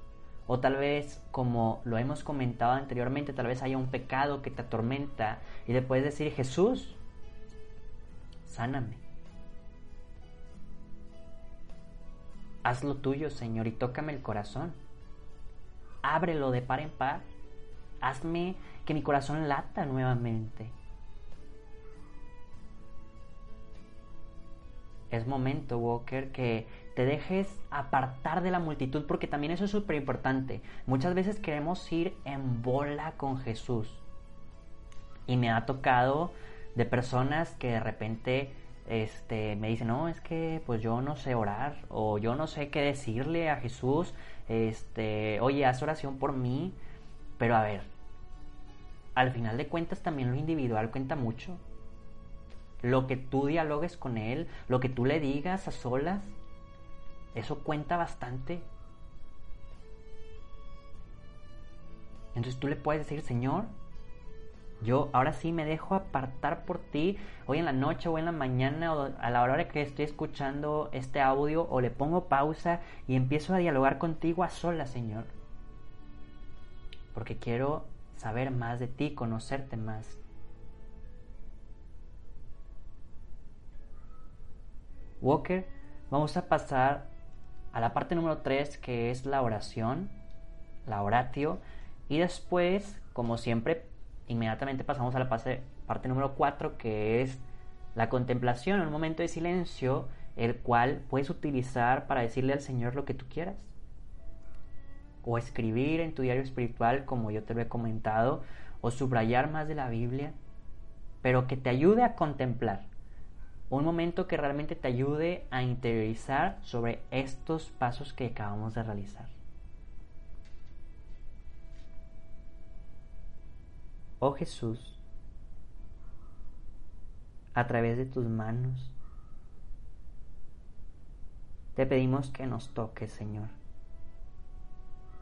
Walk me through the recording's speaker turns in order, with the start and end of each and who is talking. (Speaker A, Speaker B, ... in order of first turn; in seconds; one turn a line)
Speaker A: 0.5-7.0
Speaker A: 8.4-9.0
Speaker A: 12.6-14.8
Speaker A: 16.0-17.2
Speaker A: 18.0-20.7
Speaker A: 25.1-34.0
Speaker A: 35.3-46.8
Speaker A: 47.4-47.9
Speaker A: 49.1-51.6
Speaker A: 52.8-56.4
Speaker A: 57.3-58.7
Speaker A: 62.3-63.7
Speaker A: 64.8-75.3
Speaker A: 77.1-80.2
Speaker A: 85.2-87.1
Speaker A: 87.7-90.2
Speaker A: 90.8-97.4
Speaker A: 97.9-103.7
Speaker A: 105.2-110.4
Speaker A: 111.2-112.9
Speaker A: 113.7-119.4
Speaker A: 124.2-125.0
Speaker A: 127.5-129.0
Speaker A: 131.7-133.6